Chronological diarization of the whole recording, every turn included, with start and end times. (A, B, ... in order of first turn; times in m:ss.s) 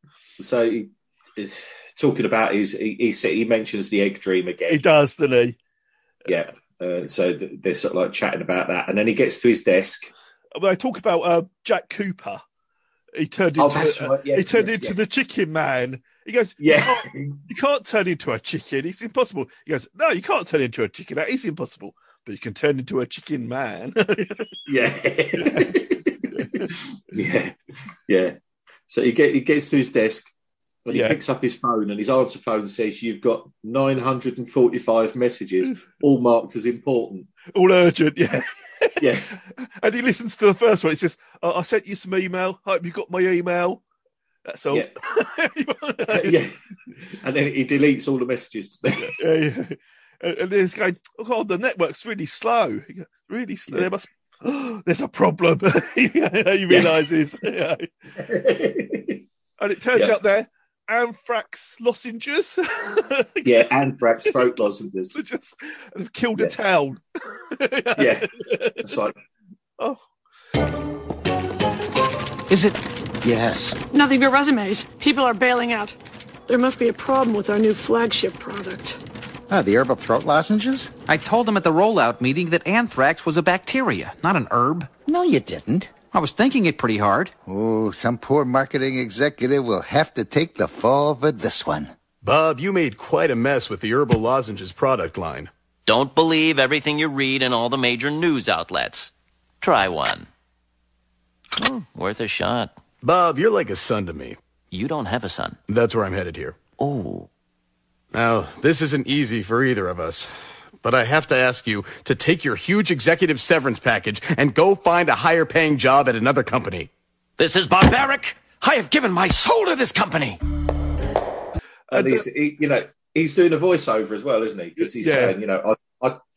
0:00.4-0:04.8 A
0:04.7-0:05.6 B
0:06.2-0:10.1 A
0:10.5-0:12.4 B
0:13.2-0:24.6 B
0:13.6-0:15.0 A
0:16.6-0:17.4 A
0:24.6-0:27.5 A
0:25.4-0:25.7 B
0:26.3-0:26.7 B
0:28.1-0:28.4 A
0:28.9-0:30.3 A
0:30.8-0:37.3 A
0:30.9-0:31.2 B
0:37.5-0:43.8 B
0:39.0-0:39.3 A
0:44.4-0:46.4 B
0:46.1-0:49.2 A
0:49.0-0:57.9 B
0:56.7-0:56.9 A
0:58.2-0:59.2 A
0:59.6-1:04.5 B
1:03.4-1:05.2 A
1:05.1-1:09.0 B
1:08.0-1:08.3 A
1:08.8-1:09.1 A
1:12.5-1:12.8 C
1:13.2-1:13.8 D
1:13.9-1:16.0 E
1:16.5-1:19.0 E
1:19.5-1:20.9 D
1:21.1-1:24.9 C
1:25.0-1:25.9 D
1:26.1-1:27.3 C
1:27.4-1:31.9 D
1:32.2-1:35.5 F
1:35.8-1:40.3 G
1:41.6-1:42.8 G
1:43.0-1:44.4 F
1:44.7-1:45.6 G
1:45.7-1:46.6 F
1:46.8-1:47.3 G
1:48.1-1:50.3 F
1:50.8-1:56.9 F
1:57.4-2:00.4 G
2:01.9-2:06.2 A
2:01.9-2:02.2 B
2:04.8-2:05.4 B